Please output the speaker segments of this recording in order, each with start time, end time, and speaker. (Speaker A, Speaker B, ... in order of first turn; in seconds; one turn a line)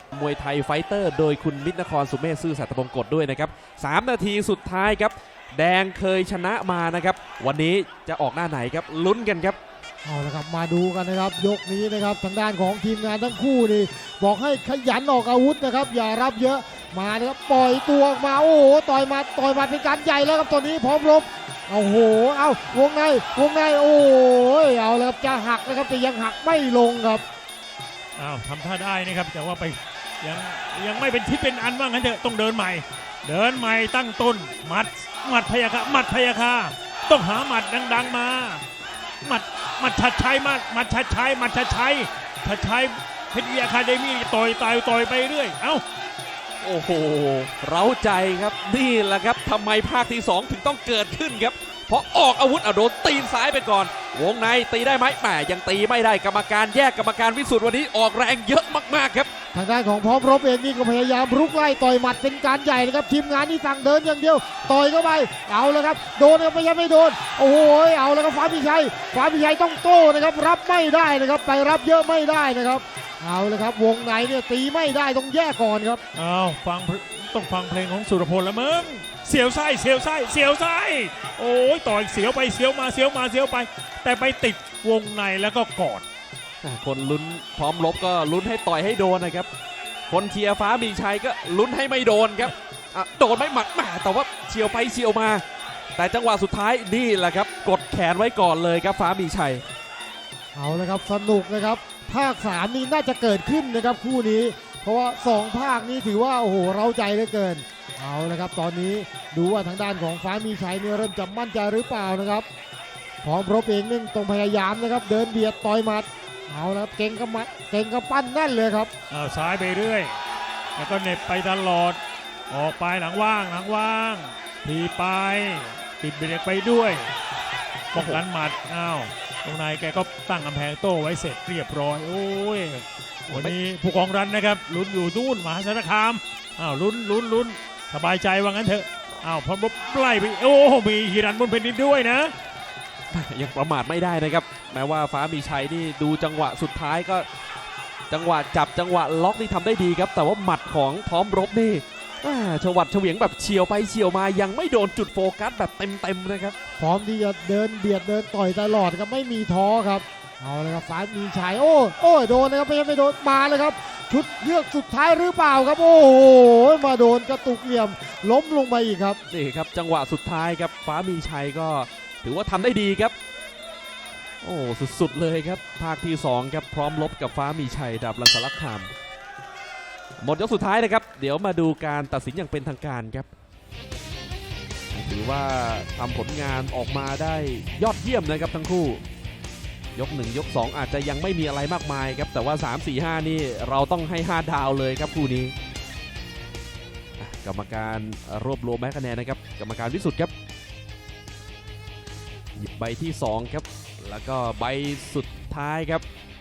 Speaker A: 0.1-9.6
Speaker B: 10.0-27.2
Speaker C: 28.2-38.6
Speaker C: 39.2-45.8
Speaker A: 46.6-59.3
Speaker B: 59.5-76.0
Speaker C: 76.1-86.0
Speaker A: 86.6-89.5
Speaker A: 90.1-95.4
Speaker A: 96.0-99.6
Speaker B: 100.5-112.5
Speaker B: 113.2-118.9
Speaker C: 119.1-120.1
Speaker C: 120.8-122.0
Speaker C: 122.5-127.1
Speaker C: 127.9-142.3
Speaker A: 127.9-128.2
Speaker A: 133.3-133.5
Speaker A: 143.1-147.2
Speaker A: 148.1-156.6
Speaker B: 156.8-169.2
Speaker A: 169.3-173.1
Speaker A: 174.4-178.9
Speaker A: 180.2-183.3
Speaker A: 184.9-189.0
Speaker A: 189.9-195.5
Speaker A: 197.2-200.3
Speaker A: 202.6-206.0